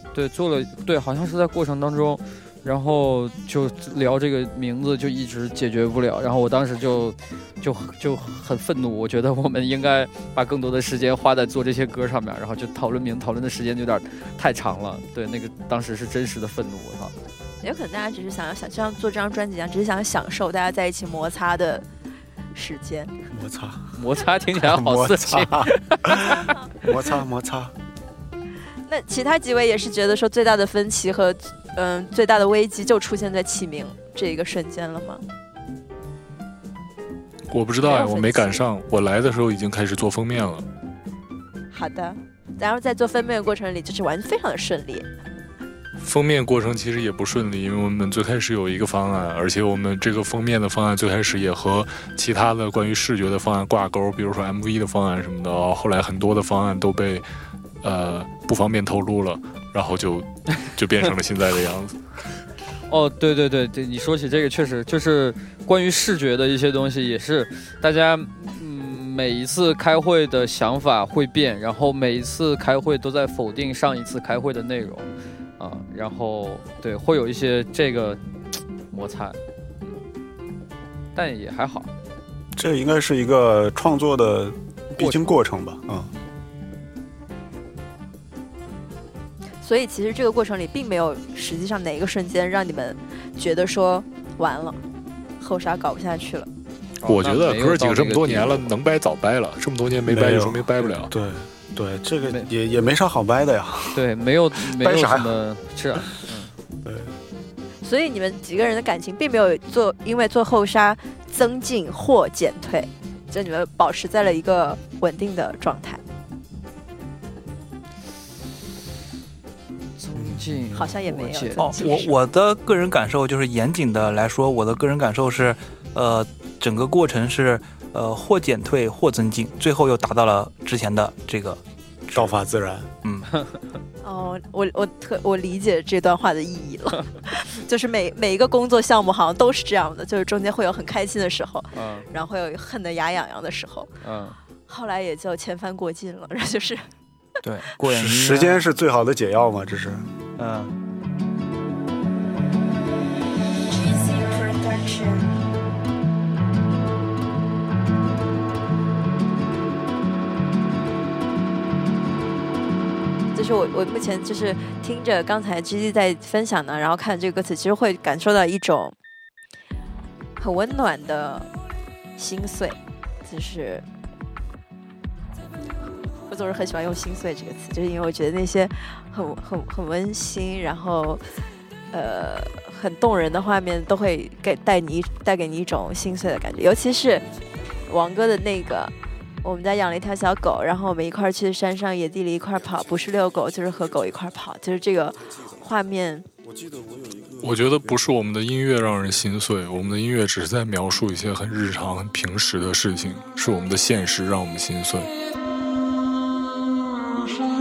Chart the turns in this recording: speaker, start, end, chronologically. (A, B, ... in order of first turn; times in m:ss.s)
0:00.1-0:17.1 A
0:17.6-0:21.8 B
0:22.5-0:23.1 B
0:23.3-0:23.9 C
0:24.0-0:26.5 A
0:24.5-0:27.7 C
0:28.9-0:35.2 B
0:37.5-0:40.6 D
0:37.8-0:38.6 B
0:41.7-0:45.1 B
0:46.0-0:57.2 D
0:57.8-1:02.0 D
1:02.9-1:18.2 A
1:18.9-1:19.4 A
1:21.1-1:21.9 A
1:22.5-1:26.1 C
1:25.0-1:25.4 A
1:29.6-1:34.8 B
1:35.4-1:36.5 B
1:37.0-1:38.7 A
1:37.0-1:41.1 D
1:40.0-1:44.0 C
1:43.9-1:46.5 A
1:44.6-1:45.3 C
1:46.8-1:47.1 C
1:47.8-1:56.0 B
2:00.0-2:01.7 A
2:00.7-2:02.1 B
2:01.6-2:12.4 E
2:12.1-2:12.9 C
2:13.0-2:13.3 E
2:13.3-2:13.6 A
2:14.0-2:23.9 B
2:21.7-2:22.0 A
2:24.0-2:24.4 A
2:24.7-2:26.8 B
2:27.4-2:28.7 E
2:27.9-2:30.0 C
2:30.4-2:30.7 E
2:33.9-2:35.2 B
2:43.3-2:48.9 B
2:50.4-2:51.5 B
2:52.2-2:53.8 B
2:56.3-3:01.2 B
3:01.9-3:07.2 B
3:07.9-3:16.3 B
3:17.4-3:25.1 D